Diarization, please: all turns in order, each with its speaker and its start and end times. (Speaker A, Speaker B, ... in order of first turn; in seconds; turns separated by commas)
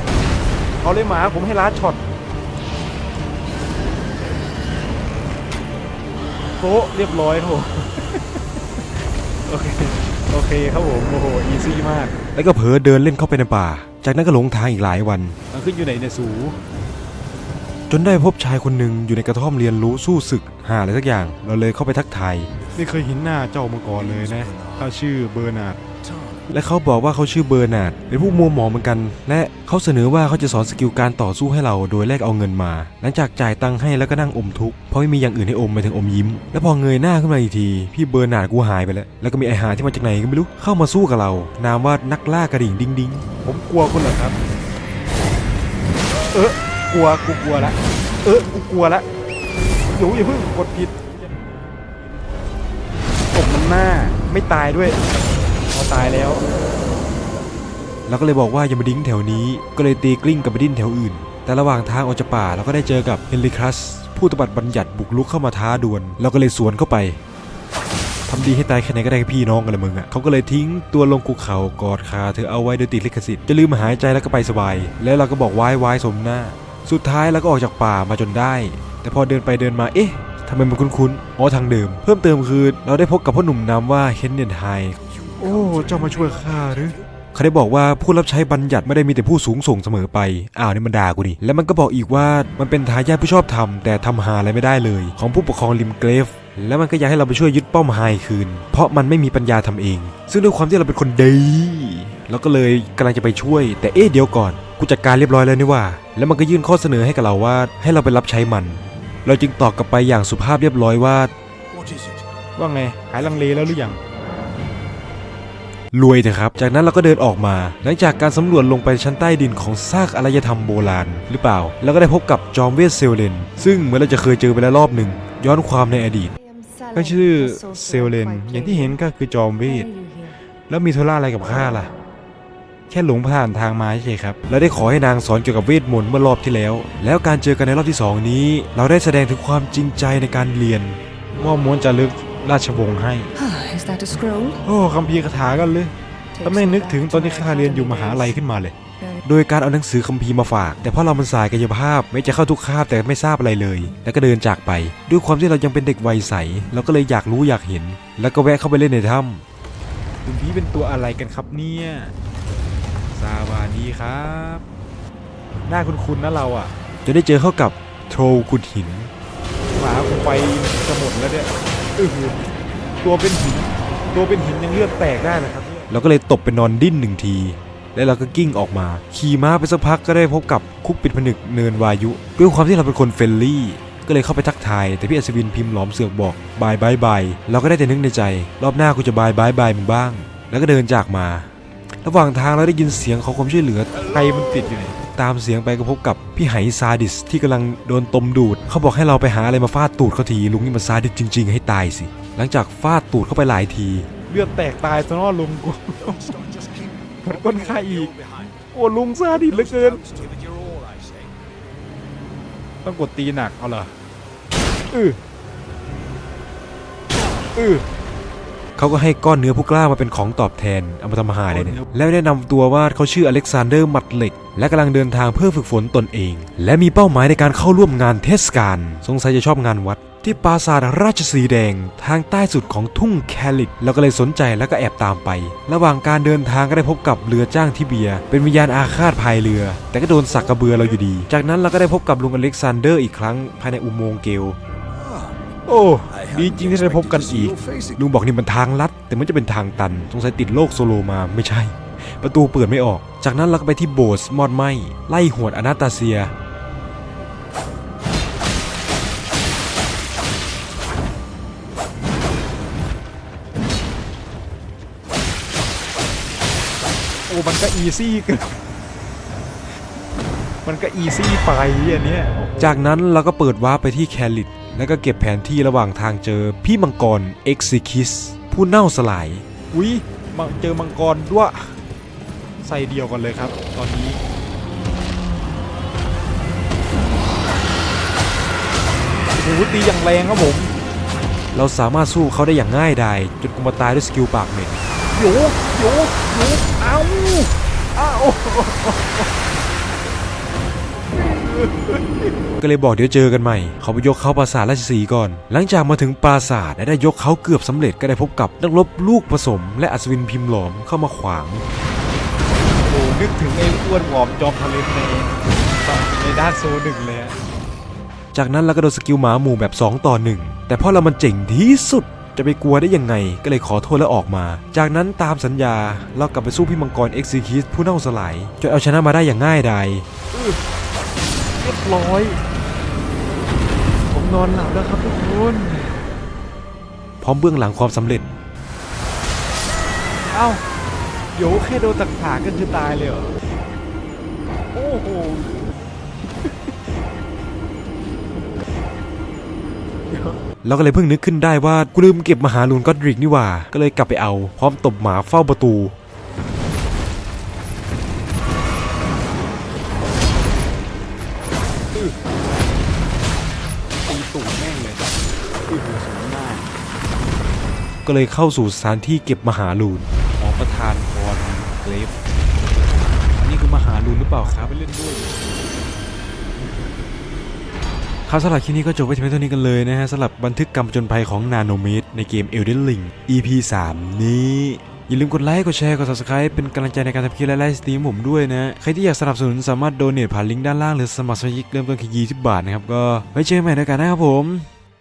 Speaker A: 0.8-2.0, Speaker A: 6.6-8.8, Speaker A: 9.5-12.1, Speaker B: 12.3-15.4, Speaker A: 15.5-16.6, Speaker B: 17.9-22.5, Speaker A: 22.7-25.8, Speaker B: 26.5-43.2, Speaker A: 43.4-44.4, Speaker A: 46.3-49.0, Speaker A: 49.9-51.1, Speaker A: 53.3-55.0, Speaker A: 55.7-56.4, Speaker B: 58.1-67.2, Speaker B: 68.3-111.3, Speaker A: 112.6-114.0, Speaker B: 115.9-126.3, Speaker C: 126.5-129.0, Speaker B: 127.0-129.9, Speaker A: 127.0-129.0, Speaker C: 129.6-130.4, Speaker B: 130.7-131.9, Speaker A: 132.9-134.4, Speaker B: 134.4-141.0, Speaker A: 141.3-143.3, Speaker C: 143.3-144.6, Speaker A: 144.6-145.9, Speaker C: 146.3-148.3, Speaker A: 146.4-148.7, Speaker B: 149.2-159.4, Speaker A: 160.2-162.1, Speaker A: 163.2-164.6, Speaker A: 165.7-166.7, Speaker B: 167.0-169.1, Speaker A: 169.7-172.5, Speaker A: 173.0-175.9, Speaker B: 175.9-191.5, Speaker B: 192.0-194.0, Speaker A: 194.1-195.0, Speaker B: 195.1-204.1, Speaker A: 204.3-206.4, Speaker A: 207.2-210.1, Speaker A: 212.8-213.9, Speaker A: 214.9-215.2, Speaker A: 217.6-217.8, Speaker B: 218.8-244.6, Speaker A: 221.5-221.8, Speaker A: 245.7-247.1, Speaker B: 246.4-256.3, Speaker A: 267.3-268.5, Speaker A: 270.6-272.8, Speaker B: 272.6-279.4, Speaker A: 279.7-281.7, Speaker A: 282.6-284.2, Speaker A: 289.3-290.7, Speaker B: 291.5-294.8, Speaker A: 295.1-299.3, Speaker A: 301.1-302.2, Speaker B: 302.6-311.6, Speaker A: 312.8-317.4, Speaker B: 318.3-330.1, Speaker A: 330.3-330.6, Speaker A: 331.6-332.4, Speaker A: 334.1-336.1, Speaker B: 337.2-338.3, Speaker A: 340.3-340.6, Speaker A: 341.3-343.3, Speaker A: 344.7-345.7, Speaker B: 350.6-355.9, Speaker A: 364.0-366.7, Speaker B: 368.0-370.1, Speaker A: 370.3-372.1, Speaker A: 373.4-375.4, Speaker B: 373.7-374.7, Speaker B: 378.3-394.7